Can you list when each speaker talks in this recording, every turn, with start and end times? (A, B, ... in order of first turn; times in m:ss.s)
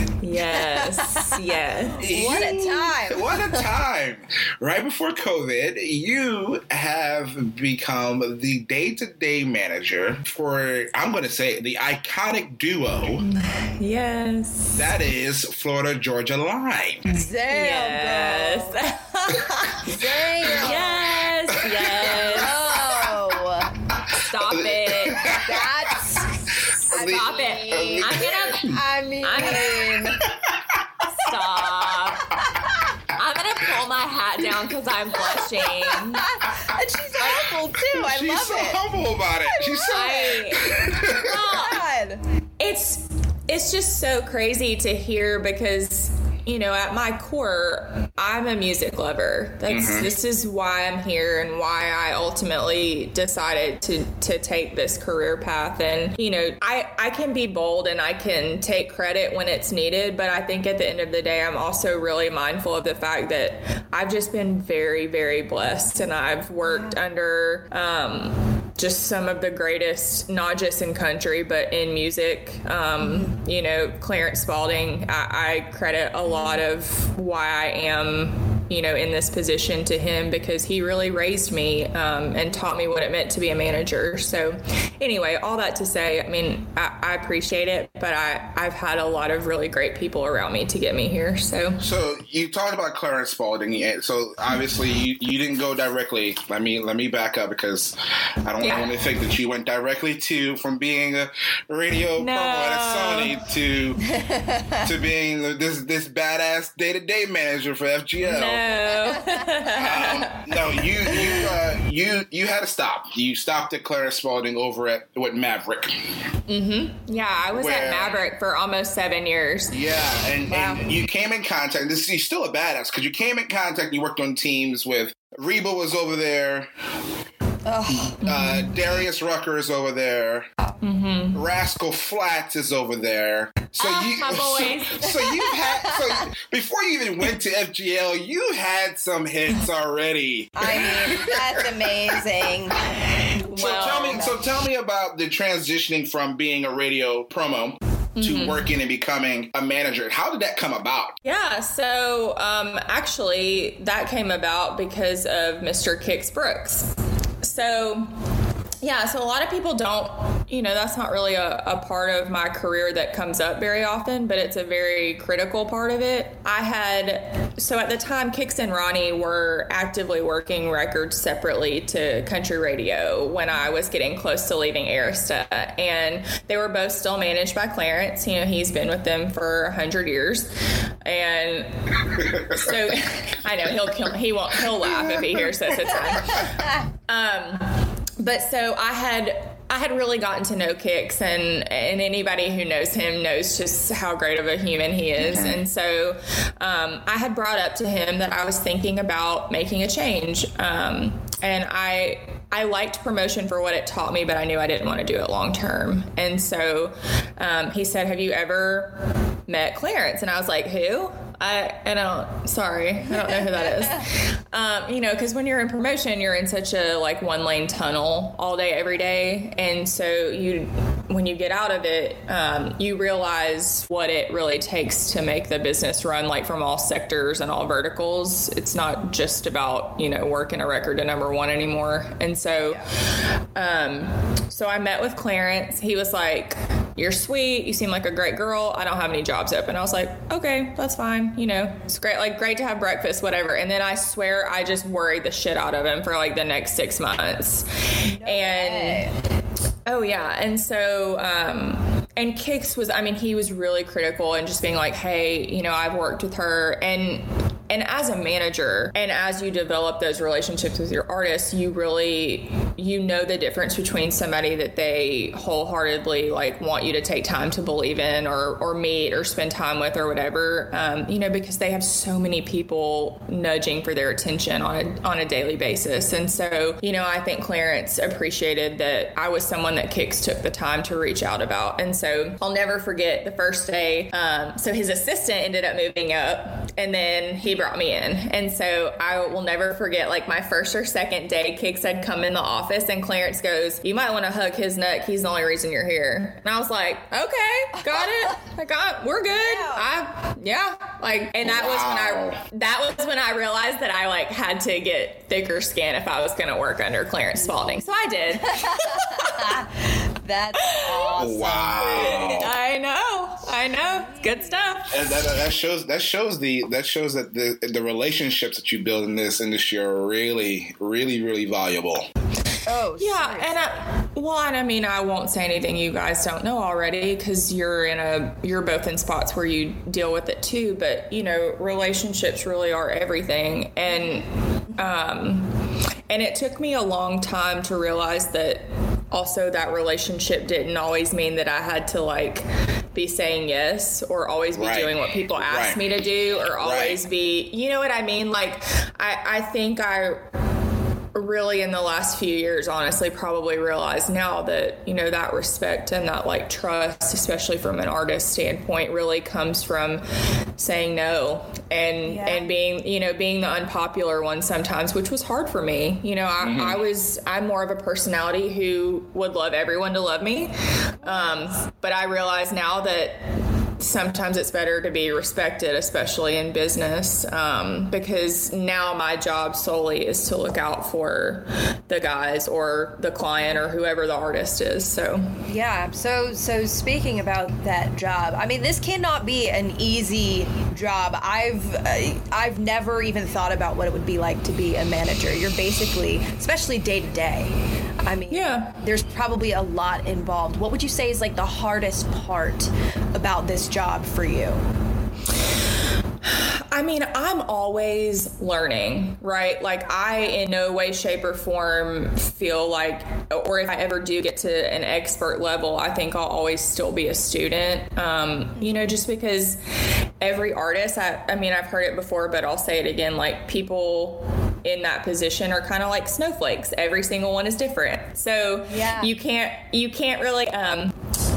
0:00.2-0:02.1 A
0:00.6-0:03.6 B
0:02.0-0:13.2 C
0:13.2-0:14.9 A
0:14.8-0:17.0 C
0:17.1-0:21.0 B
0:17.5-0:22.7 A
0:21.5-0:23.2 C
0:22.3-0:23.9 B
0:23.9-0:25.7 C
0:24.1-0:25.4 A
0:25.2-0:26.3 B
0:26.2-0:28.7 A
0:26.5-0:28.8 C
0:26.9-0:30.2 B
0:29.2-0:30.0 A
0:30.2-0:30.9 C
0:31.0-0:32.4 A
0:32.4-0:32.9 B
0:33.1-0:36.4 A
0:35.9-0:38.8 B
0:37.2-0:41.3 C
0:39.4-0:40.4 B
0:39.9-0:41.8 A
0:41.1-0:42.2 B
0:42.6-1:31.8 A
0:49.7-0:50.1 C
1:06.6-1:07.0 B
1:13.0-1:13.3 B
1:16.2-1:16.6 B
1:31.8-1:44.1 C
1:38.6-1:38.9 A
1:42.2-1:43.3 A
1:44.0-1:44.8 B
1:44.8-1:48.6 C
1:48.2-1:50.8 A
1:49.6-1:56.0 C
1:56.5-1:59.8 A
1:57.5-1:58.1 C
1:59.7-2:06.7 C
2:00.5-2:00.9 B
2:07.6-2:08.2 B
2:07.9-2:10.5 C
2:08.2-2:08.7 A
2:10.8-2:11.4 A
2:11.3-2:23.0 C
2:13.8-2:15.5 A
2:15.3-2:16.2 B
2:20.6-2:24.4 B
2:23.4-2:24.3 A
2:23.5-2:31.2 C
2:28.2-2:28.7 A
2:31.2-2:38.1 A
2:38.8-3:00.5 A
3:01.0-4:07.7 A
3:02.2-3:02.8 C
3:04.8-3:05.8 C
3:15.2-3:15.6 C
4:08.0-4:09.1 B
4:08.2-4:09.0 A
4:09.8-5:09.7 A
4:57.9-4:58.3 B
4:59.3-4:59.8 B
5:01.4-5:02.4 C
5:07.6-5:12.4 B
5:10.6-5:11.1 A
5:11.1-5:12.5 C
5:11.8-5:15.0 A
5:14.9-5:22.1 C
5:22.6-5:23.8 B
5:23.0-5:50.3 A
5:44.5-5:45.8 C
5:46.6-5:47.0 C
5:51.1-6:00.0 A
6:00.6-6:25.4 A
6:02.0-6:02.5 B
6:06.4-6:06.8 C
6:11.0-6:11.4 B
6:25.5-6:44.6 B
6:38.3-6:38.8 A
6:46.2-6:59.6 A
6:58.6-6:58.9 B
7:00.2-7:11.0 A
7:08.7-7:09.1 B